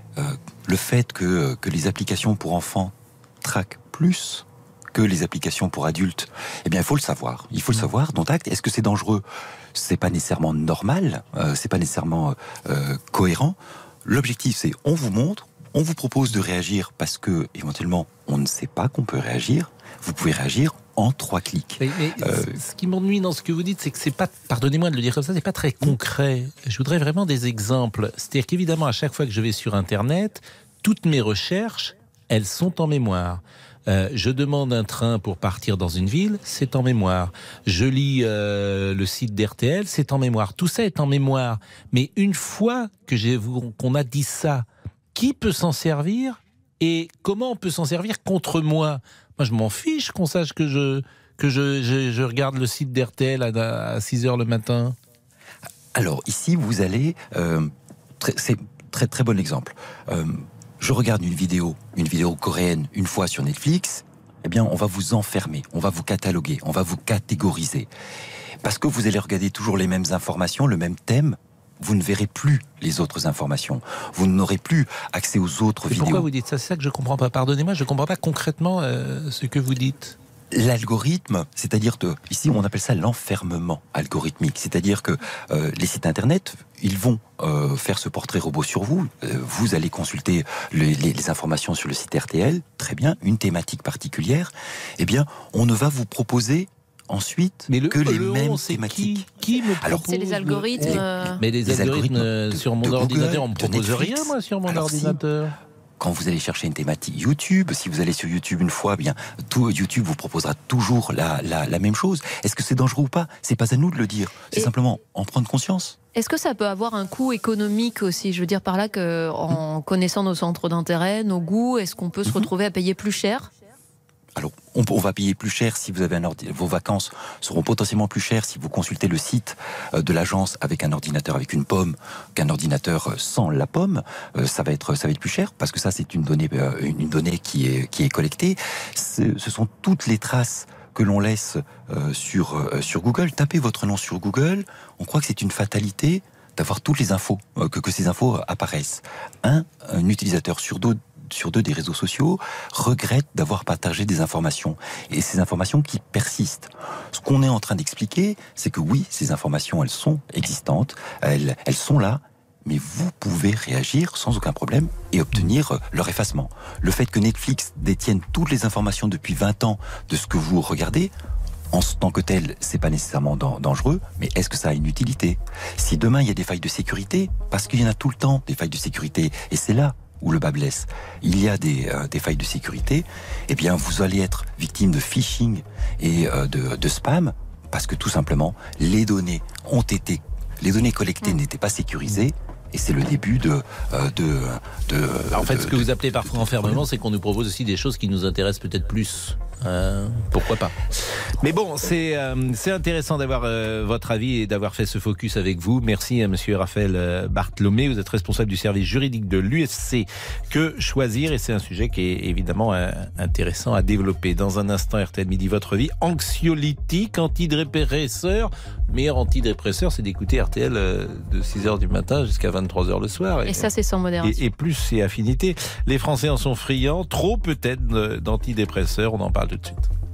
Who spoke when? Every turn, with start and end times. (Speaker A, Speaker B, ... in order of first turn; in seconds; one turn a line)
Speaker A: 0.2-22.6
Speaker B: 21.8-54.9
Speaker A: 55.9-67.9
Speaker A: 68.6-76.3
Speaker B: 75.9-80.2
Speaker A: 80.5-99.3
Speaker B: 97.7-105.5
Speaker C: 100.0-101.4
Speaker A: 100.7-105.2
Speaker A: 106.0-116.0
Speaker C: 116.1-123.5
Speaker A: 124.3-171.1
Speaker A: 171.7-196.8
Speaker B: 195.3-223.7
Speaker C: 223.4-224.4
Speaker B: 224.2-229.9